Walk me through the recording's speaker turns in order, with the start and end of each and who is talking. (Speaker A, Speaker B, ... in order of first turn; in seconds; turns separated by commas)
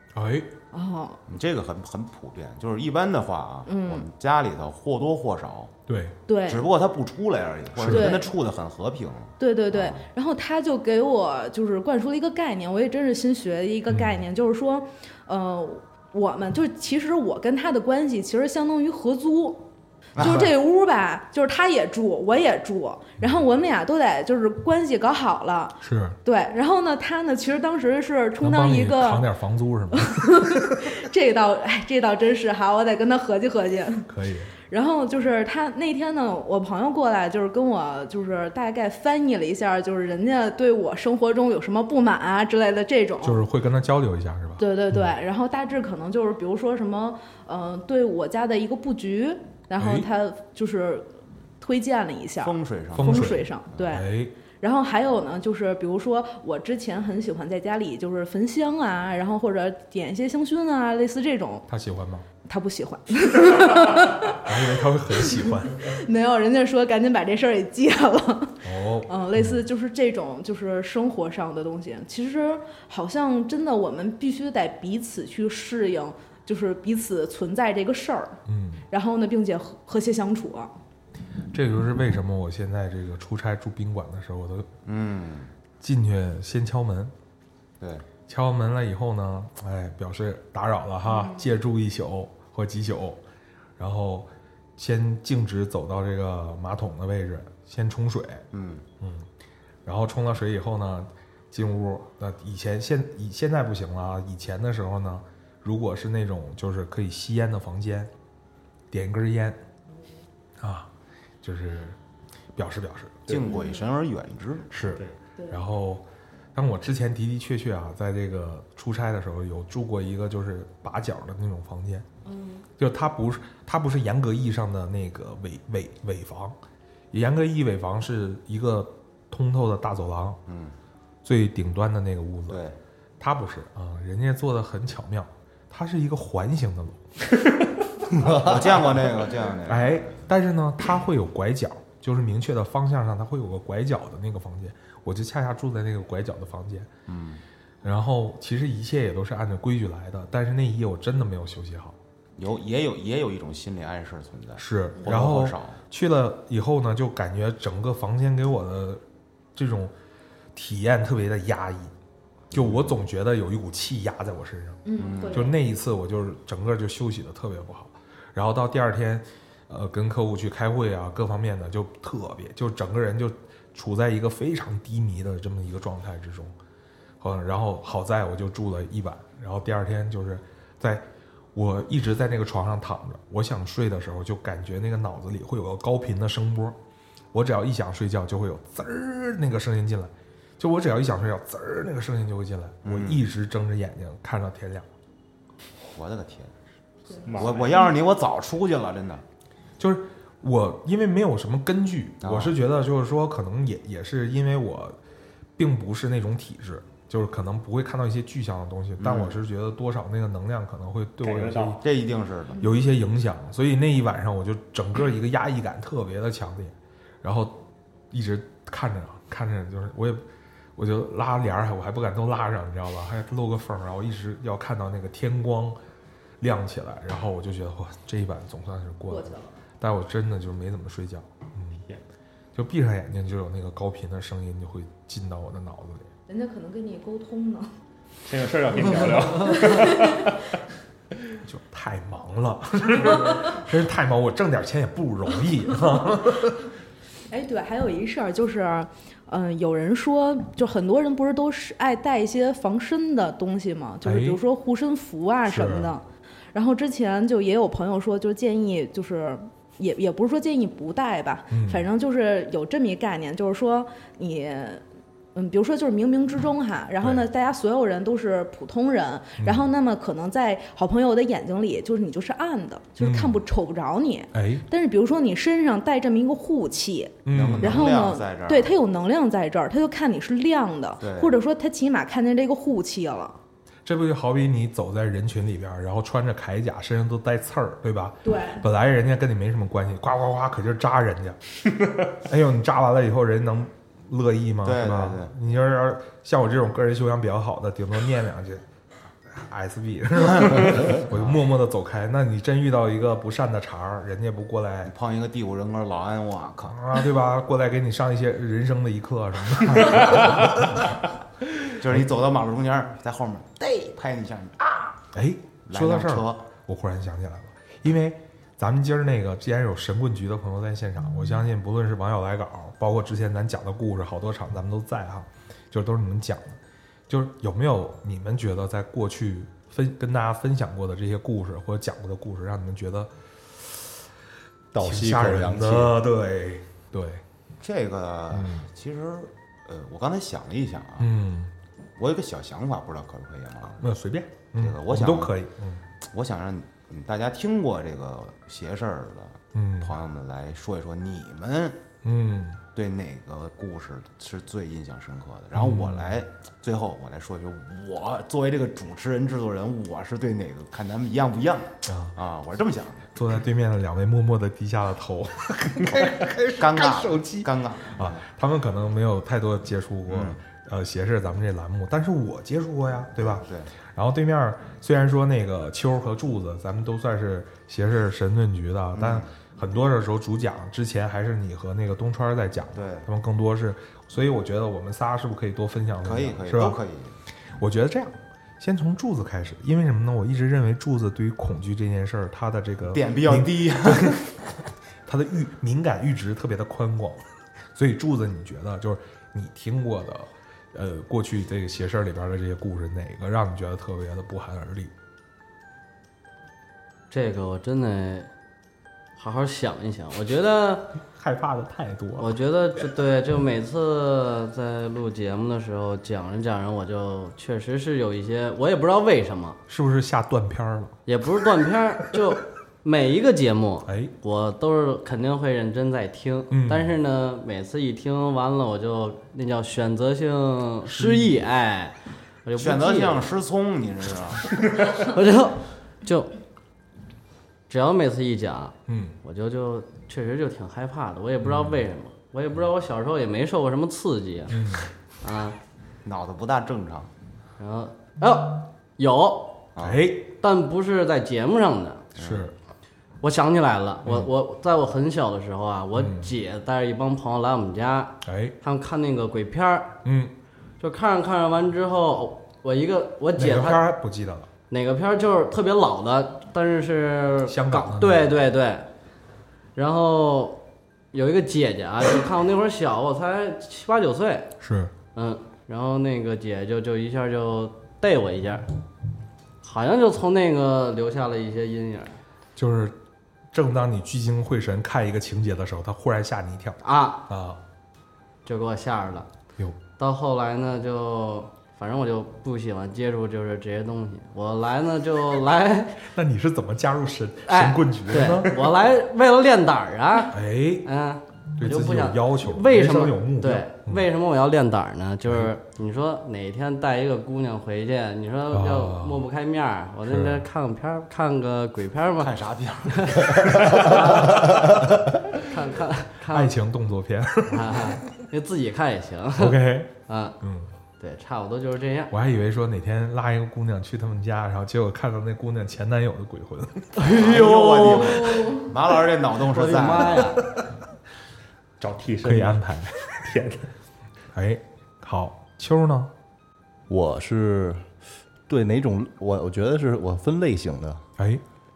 Speaker A: 0.1-0.5, Speaker B: 0.7-1.2, Speaker C: 1.3-5.7, Speaker B: 3.6-4.0, Speaker A: 5.9-6.2, Speaker B: 6.3-6.7, Speaker C: 6.4-10.0, Speaker A: 7.7-8.2, Speaker B: 7.8-8.3, Speaker B: 9.4-19.6, Speaker A: 13.9-14.2, Speaker C: 20.1-20.5, Speaker B: 20.2-29.2, Speaker A: 20.2-20.5, Speaker A: 25.8-26.2, Speaker A: 28.4-30.9, Speaker B: 29.9-34.1, Speaker A: 34.1-34.5, Speaker B: 34.7-43.4, Speaker A: 43.2-45.1, Speaker B: 44.6-54.1, Speaker A: 49.8-50.1, Speaker C: 52.4-53.4, Speaker A: 52.9-54.3, Speaker B: 54.6-61.7, Speaker A: 61.7-62.2, Speaker B: 62.5-64.5, Speaker A: 64.2-65.9, Speaker B: 65.2-78.4, Speaker A: 68.6-69.6, Speaker A: 78.5-78.8, Speaker B: 78.9-80.7, Speaker A: 81.5-84.7, Speaker C: 84.8-85.5, Speaker A: 85.8-87.1, Speaker C: 87.8-88.1, Speaker A: 88.2-93.2, Speaker B: 91.0-91.5, Speaker A: 93.8-98.5, Speaker C: 98.5-98.8, Speaker A: 99.0-99.3, Speaker A: 99.8-108.1, Speaker A: 108.9-109.6, Speaker A: 110.6-110.9, Speaker A: 111.4-112.0, Speaker A: 112.5-113.3, Speaker C: 113.3-114.7, Speaker B: 113.5-113.8, Speaker A: 114.7-122.0, Speaker B: 122.2-122.7, Speaker A: 122.8-126.5, Speaker A: 127.1-130.4, Speaker C: 130.5-130.7, Speaker A: 131.2-132.6, Speaker C: 132.5-132.8, Speaker A: 133.2-137.0, Speaker C: 138.2-140.1, Speaker A: 138.2-138.9, Speaker A: 139.7-146.9, Speaker C: 147.1-147.4, Speaker A: 147.8-152.0, Speaker C: 152.4-155.8, Speaker A: 154.6-159.0, Speaker A: 159.5-159.9, Speaker A: 160.5-161.9, Speaker C: 162.5-162.9, Speaker A: 162.5-176.5, Speaker B: 164.8-165.6, Speaker C: 164.9-165.5, Speaker A: 177.2-186.8, Speaker A: 187.3-194.9, Speaker C: 192.8-193.2, Speaker C: 195.9-196.5, Speaker B: 197.1-197.4, Speaker D: 197.3-197.9, Speaker C: 197.3-199.2, Speaker A: 199.8-204.9, Speaker C: 202.2-202.6, Speaker A: 205.6-211.8, Speaker C: 209.0-209.4, Speaker D: 211.2-211.8, Speaker C: 211.8-212.6, Speaker A: 212.6-220.2, Speaker A: 220.8-225.8, Speaker A: 226.4-231.8, Speaker B: 229.1-229.5, Speaker A: 232.5-236.1, Speaker B: 236.3-237.7, Speaker D: 238.2-240.5, Speaker B: 239.4-240.3, Speaker A: 241.4-246.6, Speaker B: 247.3-264.8, Speaker A: 254.0-254.4, Speaker A: 255.4-255.9, Speaker A: 261.5-261.8, Speaker B: 265.3-283.4, Speaker A: 269.4-269.7, Speaker A: 273.0-273.4, Speaker A: 274.3-274.6, Speaker A: 277.2-277.9, Speaker C: 277.3-278.7, Speaker C: 281.0-281.4, Speaker A: 283.8-291.4, Speaker B: 288.2-288.6, Speaker A: 292.1-298.6, Speaker C: 294.6-295.3, Speaker A: 299.3-304.9, Speaker C: 300.4-301.4, Speaker C: 304.9-306.8, Speaker A: 306.6-311.0, Speaker C: 311.8-315.0, Speaker A: 315.1-333.9, Speaker C: 315.7-316.5, Speaker E: 334.7-336.0, Speaker A: 334.8-337.2, Speaker C: 337.6-341.1, Speaker A: 338.3-338.7, Speaker A: 341.0-341.5, Speaker C: 342.0-343.8, Speaker A: 343.8-345.8, Speaker C: 344.6-345.3, Speaker C: 346.1-351.8, Speaker A: 349.5-349.9, Speaker A: 352.0-352.6, Speaker C: 352.7-363.1, Speaker A: 355.5-356.2, Speaker A: 361.9-362.2, Speaker A: 363.1-386.8, Speaker C: 366.6-368.2, Speaker C: 370.1-370.4, Speaker C: 373.2-373.7, Speaker C: 378.9-379.3, Speaker C: 382.7-383.1, Speaker C: 386.0-387.1, Speaker A: 387.6-394.3, Speaker C: 392.9-394.1, Speaker A: 395.1-397.2, Speaker A: 397.7-404.9, Speaker F: 407.1-408.3, Speaker F: 409.2-410.9, Speaker A: 411.1-412.4, Speaker F: 412.2-419.6, Speaker A: 419.7-420.9, Speaker F: 421.1-433.3, Speaker A: 423.9-424.1, Speaker A: 426.5-427.0, Speaker A: 430.9-431.3, Speaker C: 432.6-434.5, Speaker F: 434.8-436.4, Speaker F: 437.7-444.6, Speaker A: 438.9-439.2, Speaker A: 441.4-441.9, Speaker A: 444.5-444.9, Speaker F: 445.2-445.6, Speaker C: 446.0-447.1, Speaker F: 447.6-449.7, Speaker C: 449.8-450.0, Speaker A: 449.8-450.3, Speaker F: 450.4-452.1, Speaker C: 452.1-452.5, Speaker A: 452.2-452.5, Speaker F: 453.2-460.0, Speaker A: 454.0-454.3, Speaker A: 455.9-456.3, Speaker A: 458.2-458.5, Speaker A: 460.0-460.3, Speaker F: 460.8-463.8, Speaker A: 463.3-464.5, Speaker F: 464.7-468.9, Speaker A: 467.4-468.4, Speaker F: 469.7-474.5, Speaker A: 474.6-474.9, Speaker F: 475.1-478.7, Speaker F: 479.6-482.2, Speaker A: 482.6-483.0, Speaker A: 483.5-487.6, Speaker F: 486.8-487.2, Speaker F: 488.4-489.3, Speaker F: 490.0-496.0, Speaker A: 496.0-498.7, Speaker F: 497.5-512.4, Speaker A: 500.3-500.9, Speaker A: 501.6-504.1, Speaker A: 505.2-505.5, Speaker A: 508.5-509.2, Speaker A: 510.1-510.4, Speaker C: 512.2-514.0, Speaker F: 512.9-514.7, Speaker F: 515.4-516.5, Speaker A: 516.3-518.2, Speaker F: 517.5-520.4, Speaker A: 519.4-520.7, Speaker F: 521.0-522.1, Speaker A: 522.1-527.0, Speaker F: 527.0-528.6, Speaker C: 527.0-530.4, Speaker F: 529.4-530.5, Speaker D: 531.8-533.7, Speaker A: 532.2-533.2, Speaker A: 534.3-536.1, Speaker E: 536.9-537.9, Speaker E: 538.5-541.0, Speaker A: 541.2-541.4